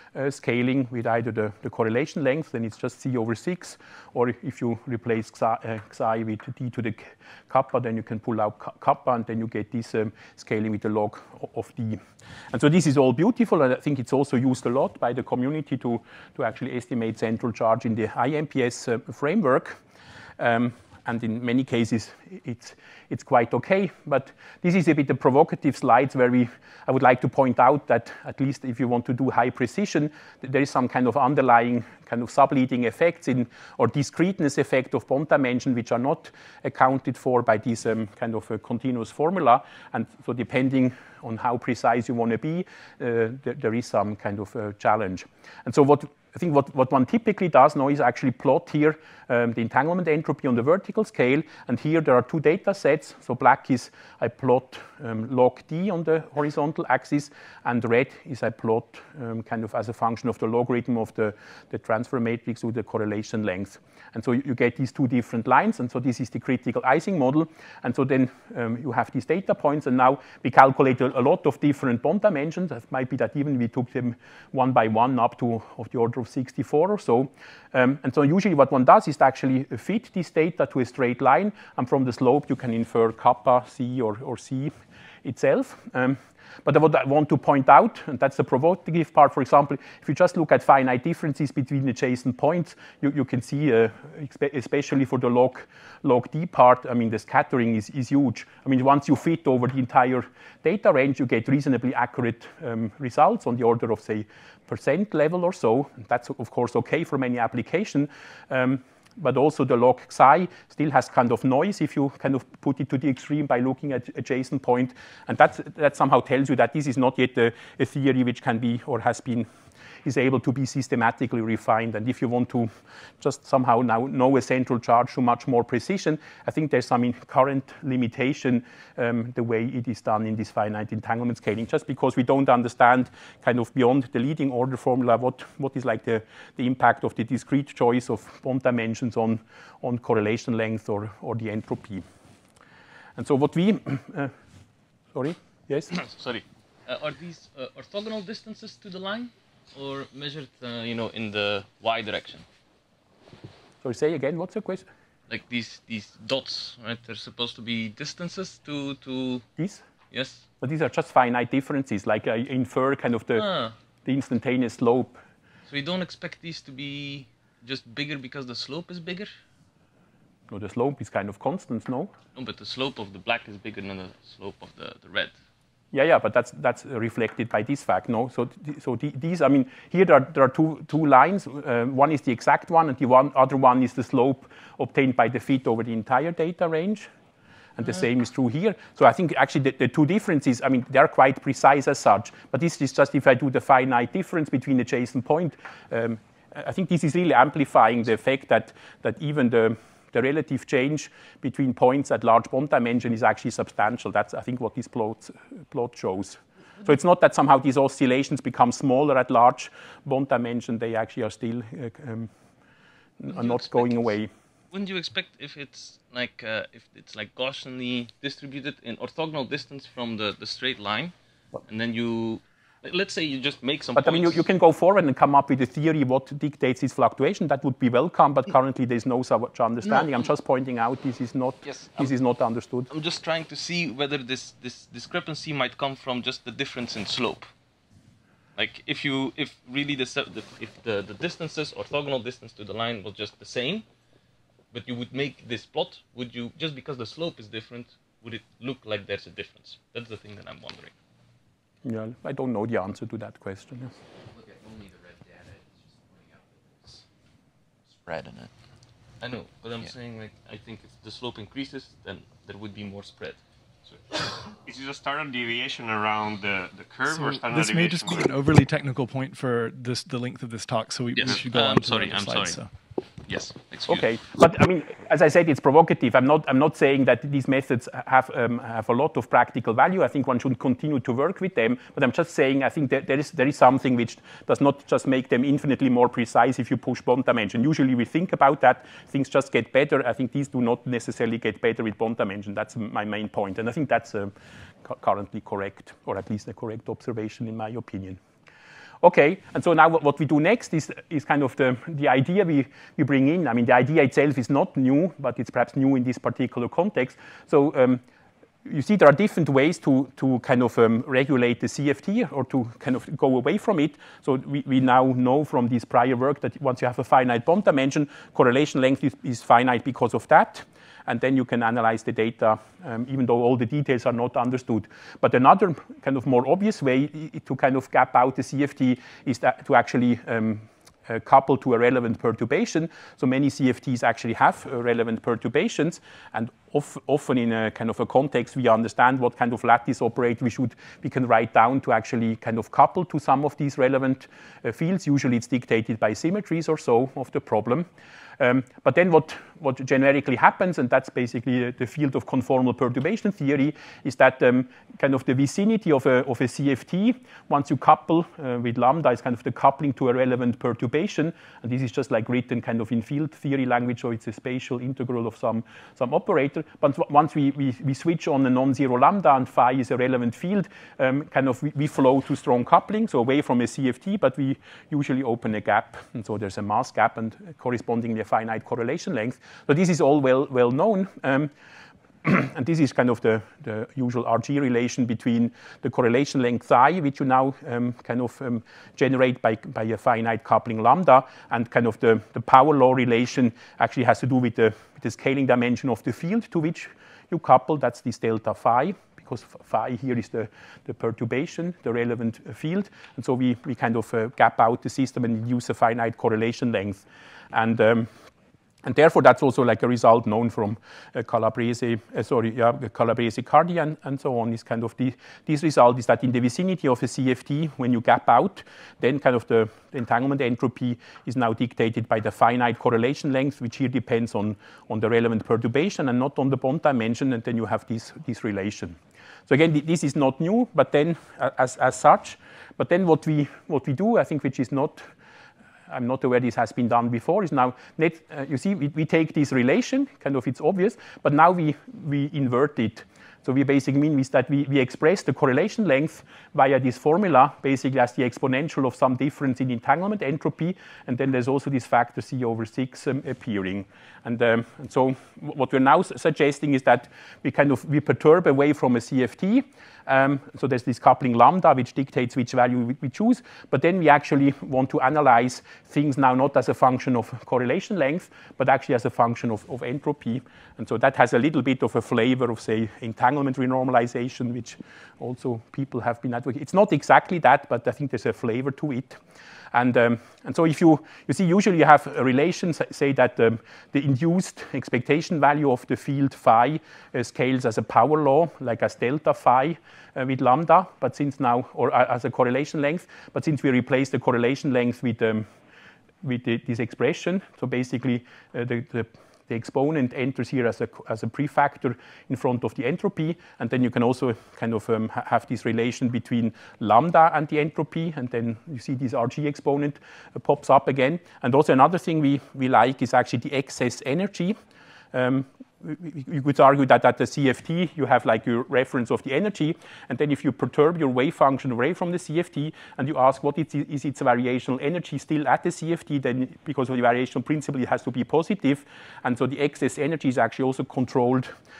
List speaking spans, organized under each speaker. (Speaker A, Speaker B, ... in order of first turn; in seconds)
Speaker A: 0.1-12.0, 12.5-19.8, 20.4-84.7, 85.2-119.5, 120.0-142.1, 143.2-144.3, 145.1-145.9, 153.8-154.9, 159.6-159.8, 160.6-163.5, 164.1-165.2, 170.5-172.1, 175.9-187.1, 187.8-212.3, 213.2-214.3, 224.0-232.9, 251.8-253.9, 273.9-294.3, 294.8-298.2, 299.0-308.0, 308.6-347.9, 348.4-381.5, 382.2-408.1, 408.8-435.1, 435.9-479.2, 479.7-495.5, 496.2-514.6, 515.1-531.5
Speaker B: 145.9-152.5, 155.3-159.5, 160.1-160.4, 163.3-163.8, 165.7-169.3, 172.3-175.4, 213.3-214.2, 214.7-221.2, 221.7-224.4, 229.8-230.2, 231.6-232.1, 232.9-237.5, 238.6-243.9, 244.7-250.9, 259.2-263.4, 271.1-272.6, 273.2-274.1
Speaker C: 254.3-257.1, 257.9-258.5
Speaker D: 264.6-268.3
Speaker E: 267.1-272.7